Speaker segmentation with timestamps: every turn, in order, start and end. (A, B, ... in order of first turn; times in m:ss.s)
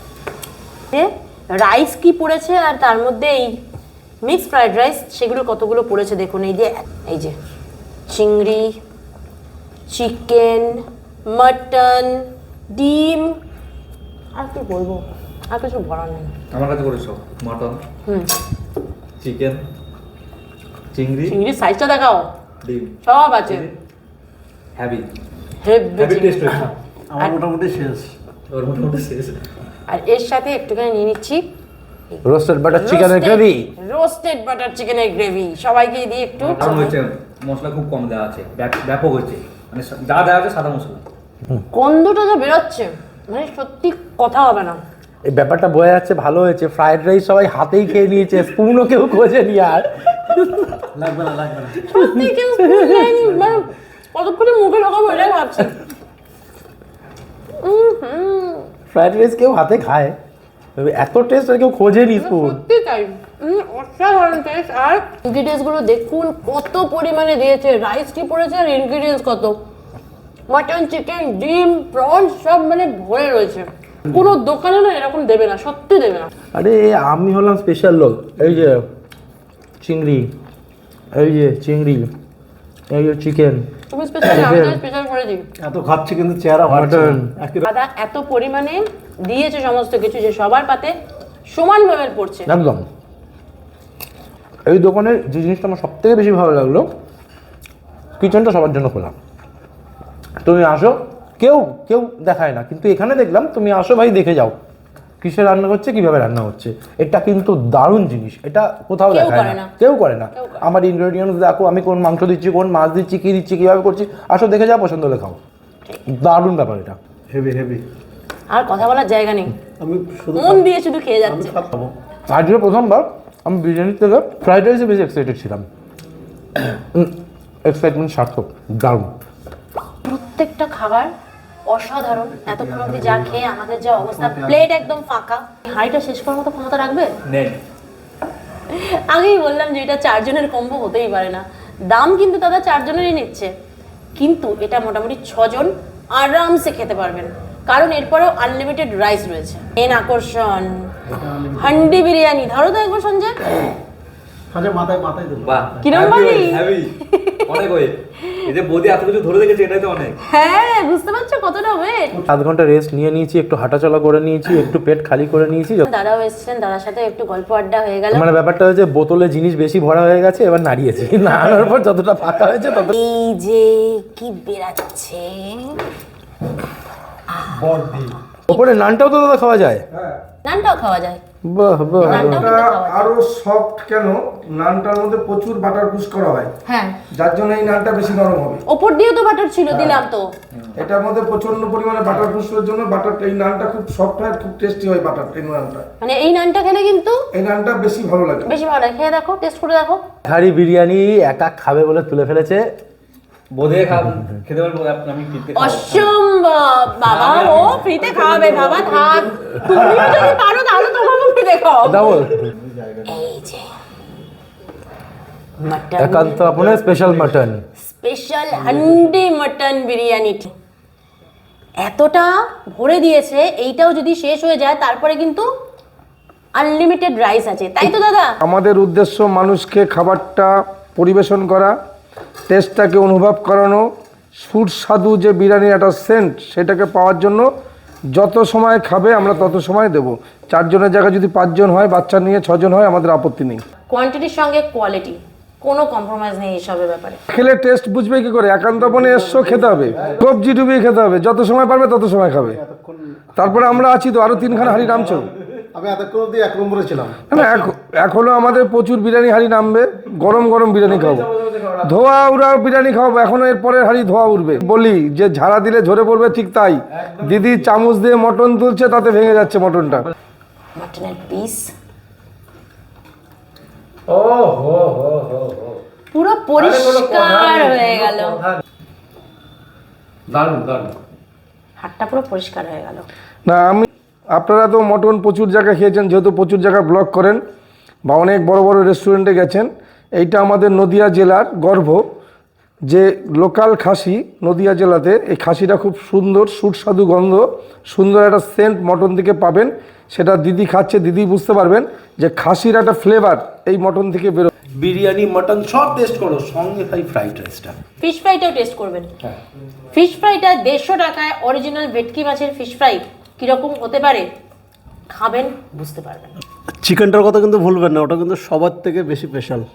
0:00.9-0:03.6 A
0:04.2-0:07.4 A
0:08.1-0:08.8 A
0:09.9-0:13.4 A
0:14.4-0:16.3 A
0:16.5-0:17.8 B
0:18.1-0:18.3 A
0:19.2-0:19.6 B
0:20.9-0:21.4 B
0:21.3-0:22.3 A
0:22.6-0:23.7 B
0:23.0-0:23.7 A
0:24.8-0:25.1 B
0:25.6-0:27.4 A
0:26.0-0:26.7 B
0:27.1-0:28.1 C
0:28.5-0:29.4 B
0:29.9-0:31.4 A
0:32.1-0:37.0 A
0:32.2-0:33.7 D
0:36.4-0:41.0 B
0:41.7-0:44.8 A
0:45.3-0:50.8 D
0:50.9-0:51.9 C
0:51.9-0:55.8 A
0:52.8-0:53.1 D
0:57.6-0:58.7 A
0:58.9-1:00.2 D
1:00.8-1:02.6 D
1:02.2-1:09.6 A
1:10.5-1:16.3 A
1:16.5-1:18.9 D
1:19.8-1:20.3 D
1:21.1-1:22.1 D
1:22.9-1:23.7 D
1:23.9-1:25.5 A
1:24.3-1:24.8 D
1:25.6-1:27.6 C
1:26.7-1:27.3 D
1:27.6-1:31.0 A
1:31.5-1:32.5 A
1:32.5-1:32.9 D
1:34.7-1:36.9 D
1:38.2-1:39.2 D
1:40.4-1:44.6 D
1:45.2-1:55.4 D
1:49.1-1:49.7 A
1:50.4-1:50.6 A
1:56.1-1:57.0 D
1:57.3-1:57.8 C
1:58.5-1:59.6 A
1:59.8-2:00.7 C
2:00.4-2:01.6 A
2:01.2-2:01.9 C
2:02.3-2:05.6 D
2:06.6-2:09.2 D
2:10.1-2:11.1 A
2:11.7-2:17.2 A
2:12.4-2:13.4 C
2:14.0-2:14.9 C
2:17.3-2:17.6 B
2:18.7-2:23.5 A
2:24.2-2:33.4 A
2:31.1-2:31.8 C
2:34.5-2:35.9 C
2:35.4-2:40.2 B
2:35.8-2:37.6 A
2:40.2-2:42.2 A
2:42.3-2:45.9 D
2:45.9-2:48.3 A
2:48.1-2:52.9 D
2:52.9-2:55.8 A
2:57.3-2:58.6 A
2:58.5-2:59.8 D
2:59.9-3:00.2 E
3:00.4-3:01.2 A
3:01.5-3:02.5 D
3:02.0-3:06.5 E
3:02.0-3:03.1 A
3:06.7-3:07.0 A
3:07.1-3:08.6 E
3:08.7-3:10.3 A
3:09.7-3:10.0 E
3:10.8-3:15.8 E
3:16.0-3:17.2 A
3:17.3-3:18.5 E
3:18.5-3:20.0 A
3:20.3-3:22.7 D
3:23.5-3:26.1 B
3:25.5-3:32.1 A
3:27.0-3:29.5 B
3:31.8-3:32.5 D
3:32.6-3:33.1 C
3:33.1-3:33.7 A
3:35.6-3:36.4 A
3:36.0-3:37.6 D
3:36.5-3:37.3 C
3:37.8-3:40.5 A
3:41.8-3:45.5 A
3:46.6-3:48.4 A
3:48.4-3:51.8 E
3:52.5-3:53.9 E
3:54.4-3:57.5 E
3:58.1-4:03.6 E
4:03.9-4:07.2 A
4:07.3-4:12.6 E
4:08.8-4:10.3 C
4:12.5-4:13.5 C
4:13.4-4:15.3 E
4:15.7-4:17.4 C
4:17.3-4:21.3 E
4:20.8-4:21.9 D
4:21.8-4:30.1 E
4:27.0-4:27.6 D
4:30.8-4:31.7 A
4:34.1-4:35.8 D
4:36.1-4:38.4 A
4:36.6-4:38.6 D
4:40.3-4:41.0 D
4:41.8-4:43.1 A
4:43.5-4:47.4 E
4:48.1-4:52.0 E
4:52.9-5:04.5 E
5:04.7-5:07.8 D
5:08.0-5:09.1 A
5:09.9-5:14.3 A
5:15.1-5:16.3 A
5:16.8-5:19.7 C